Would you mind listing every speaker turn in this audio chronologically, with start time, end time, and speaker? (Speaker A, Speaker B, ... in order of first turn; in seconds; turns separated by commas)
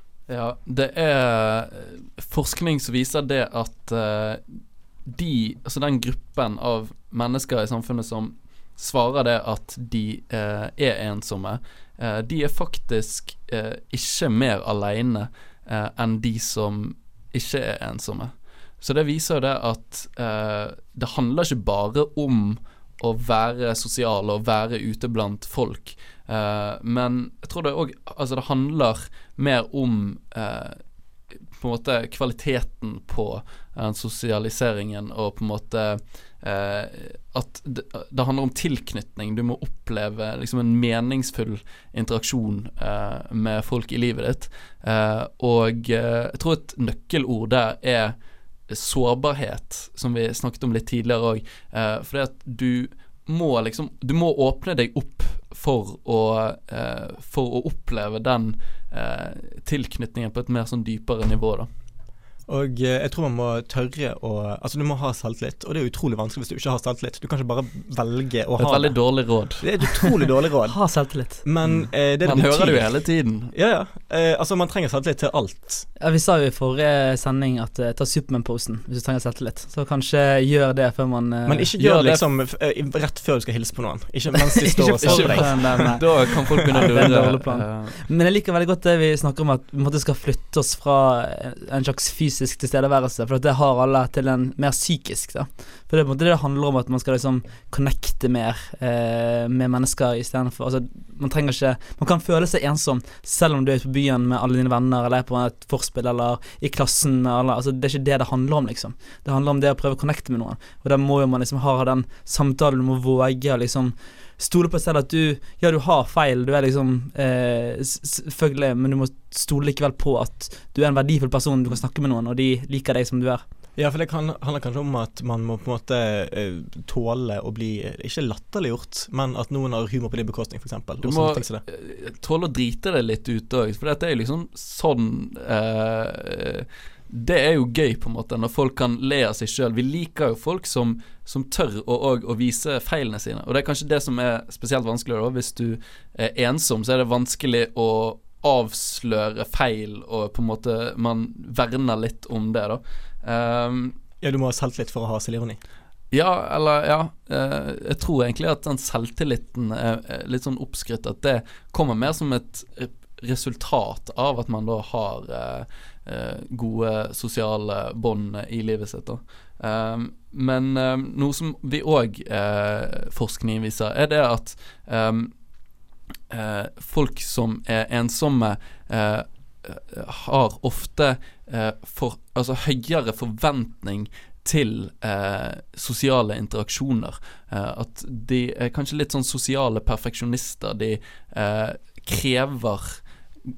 Speaker A: 0.3-30.8, Speaker A: 31.5-48.1, Speaker A: 48.7-61.7, Speaker B: 62.5-75.8, Speaker A: 68.6-69.7, Speaker C: 70.6-71.4, Speaker A: 71.6-73.5, Speaker C: 76.0-81.7, Speaker B: 81.5-87.3, Speaker A: 81.8-82.2, Speaker C: 84.6-86.1, Speaker A: 85.0-88.0, Speaker C: 86.7-123.4, Speaker B: 123.8-131.6, Speaker A: 131.0-153.9, Speaker B: 154.2-155.6, Speaker A: 156.1-175.3, Speaker A: 176.3-193.1